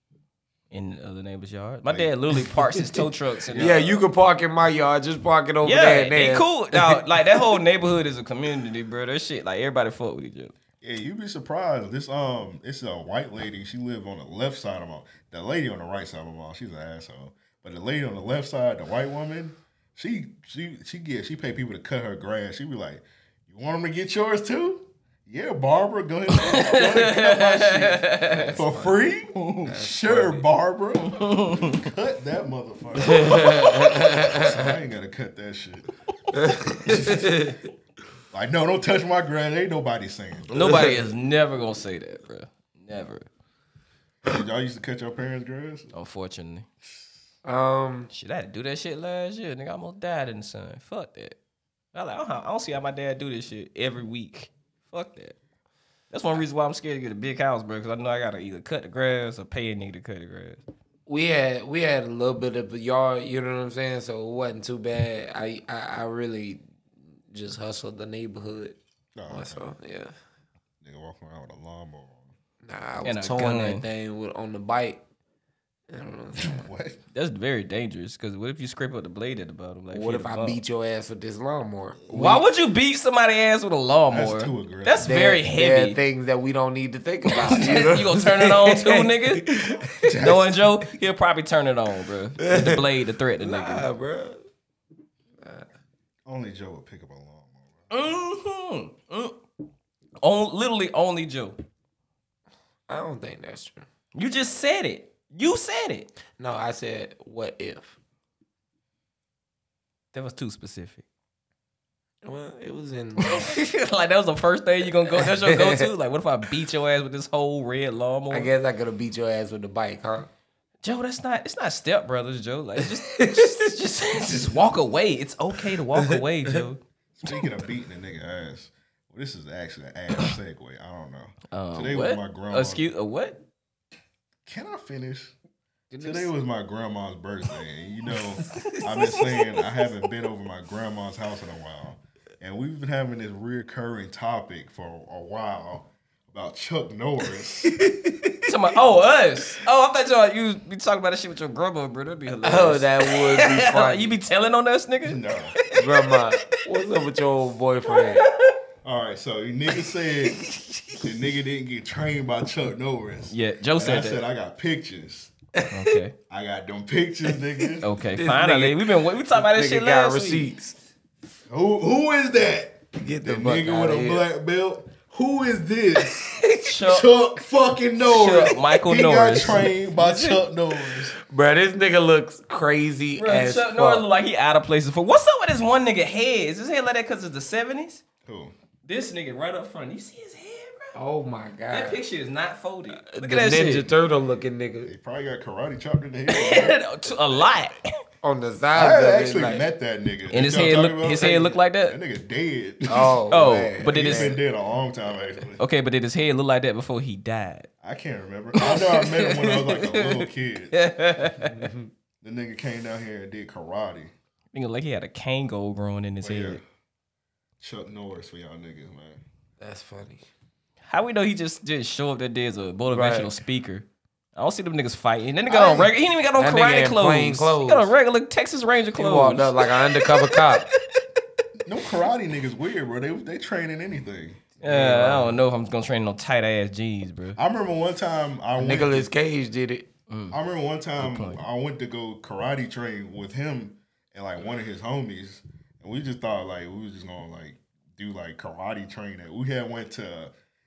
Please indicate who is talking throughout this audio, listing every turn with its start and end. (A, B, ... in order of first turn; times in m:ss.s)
0:00.7-0:04.0 A
0:03.5-0:07.5 B
0:05.6-0:10.5 A
0:10.8-0:35.9 C
0:26.4-0:28.7 A
0:28.4-0:28.9 B
0:29.7-0:30.4 B
0:31.2-0:31.8 A
0:33.0-0:34.4 B
0:36.3-0:37.6 B
0:36.8-0:37.3 C
0:38.3-0:40.8 C
0:40.5-0:43.2 A
0:40.6-0:40.9 B
0:44.2-0:45.9 C
0:45.9-0:46.6 A
0:47.4-0:48.1 B
0:48.1-0:51.4 A
0:51.9-0:55.3 A
0:56.1-1:00.6 A
1:01.1-1:06.6 B
1:07.3-1:08.8 B
1:09.1-1:09.7 C
1:09.3-1:10.1 B
1:10.8-1:12.3 C
1:12.6-1:15.0 B
1:13.0-1:13.8 A
1:15.9-1:16.7 B
1:16.4-1:17.0 C
1:17.1-1:20.6 A
1:19.9-1:22.4 B
1:22.1-1:26.0 A
1:24.1-1:25.1 C
1:25.0-1:30.0 B
1:27.5-1:29.4 A
1:30.0-1:30.7 C
1:30.1-1:33.9 A
1:32.4-1:32.8 B
1:33.4-1:34.4 B
1:35.4-1:35.7 B
1:36.2-1:37.8 C
1:37.9-1:39.4 A
1:40.2-1:41.6 A
1:42.9-1:43.8 B
1:44.1-1:46.1 A
1:46.4-1:47.9 B
1:50.1-1:51.0 A
1:52.2-1:53.6 B
1:53.2-1:58.5 A
1:55.2-1:55.8 B
1:58.3-2:00.3 B
2:00.8-2:06.8 A
2:07.2-2:12.8 C
2:11.5-2:13.4 A
2:14.4-2:15.3 C
2:15.9-2:16.3 B
2:16.0-2:27.8 C
2:27.8-2:28.4 B
2:28.4-2:35.2 A
2:32.4-2:34.1 B
2:35.0-2:35.6 C
2:35.8-2:38.2 B
2:37.9-2:38.5 A
2:38.8-2:40.4 C
2:40.5-2:41.0 B
2:41.0-2:45.3 C
2:43.3-2:44.2 A
2:45.7-2:46.1 A
2:46.3-2:47.9 C
2:47.8-2:50.5 A
2:48.2-2:50.8 B
2:51.5-3:01.2 C
2:53.0-2:54.2 B
2:56.6-2:57.1 A
2:58.0-3:00.4 A
3:01.3-3:04.0 B
3:03.2-3:08.0 A
3:08.2-3:08.5 C
3:08.8-3:10.9 A
3:10.9-3:12.0 B
3:11.7-3:13.9 A
3:13.0-3:14.9 B
3:14.8-3:16.8 C
3:16.3-3:17.8 A
3:18.2-3:19.6 B
3:18.7-3:25.6 C
3:20.3-3:22.0 A
3:22.9-3:24.4 B
3:23.3-3:24.4 A
3:25.6-3:27.7 A
3:27.8-3:30.7 C
3:28.6-3:31.7 A
3:31.4-3:31.9 B
3:32.2-3:34.1 C
3:34.5-3:36.6 A
3:36.2-3:36.6 C
3:37.6-3:39.2 C
3:39.6-3:40.2 B
3:40.9-3:50.1 A
3:42.9-3:43.3 B
3:45.5-3:47.9 B
3:49.0-3:50.7 B
3:51.6-3:55.3 C
3:54.6-3:57.4 A
3:54.7-3:55.2 B
3:57.4-3:59.1 C
3:58.6-3:59.9 B
4:00.1-4:00.4 A
4:00.3-4:10.3 C
4:01.0-4:01.4 A